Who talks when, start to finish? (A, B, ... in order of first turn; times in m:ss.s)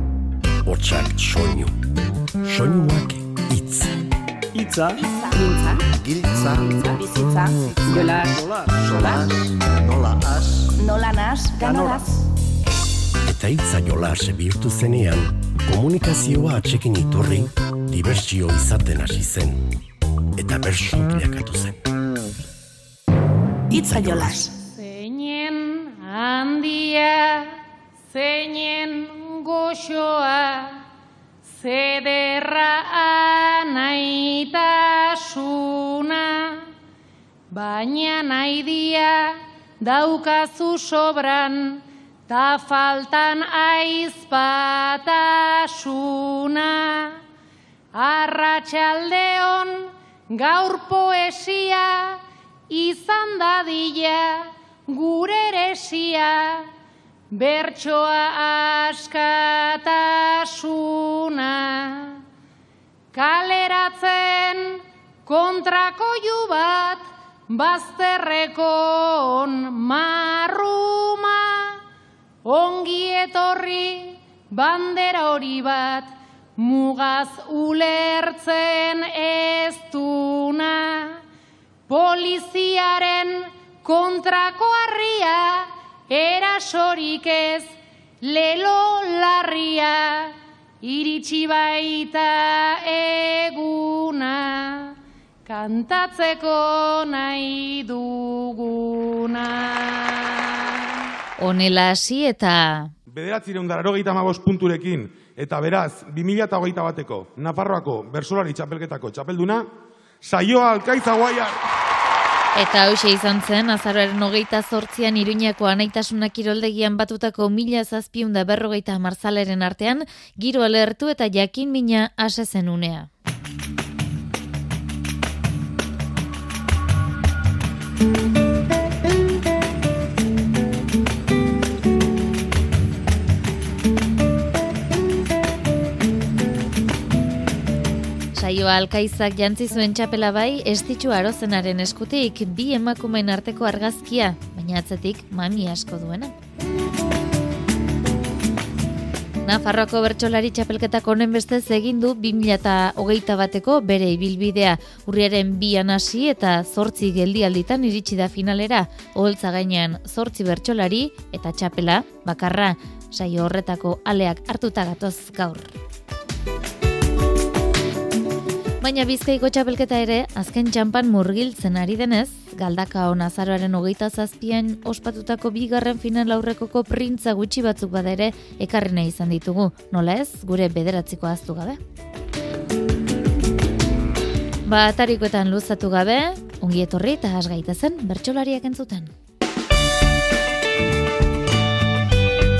0:00.6-0:01.7 A
0:02.4-0:03.9 A
0:05.0-0:05.8 B
0:06.3-0:06.6 A
0:06.6-0:09.3 B
0:10.8-0:12.2 B
0:13.2-0:19.6 A
0:20.4-0:21.8 A
0:23.7-0:24.5 A
0:24.8-0:27.5 C
0:28.1-0:30.8 C
0:31.4-0:36.6 C
0:37.5-0:47.2 C
0:47.9-0:56.7 C
0:57.3-1:02.2 C
1:03.1-1:11.8 C
1:12.4-1:21.2 C
1:21.9-1:40.9 C
1:41.4-1:42.9 D
1:43.1-1:49.6 E
1:50.2-1:51.6 E
1:52.5-2:03.1 D
2:18.3-2:26.3 D
2:29.4-2:45.7 D
2:48.8-3:01.8 D
3:04.6-3:09.1 D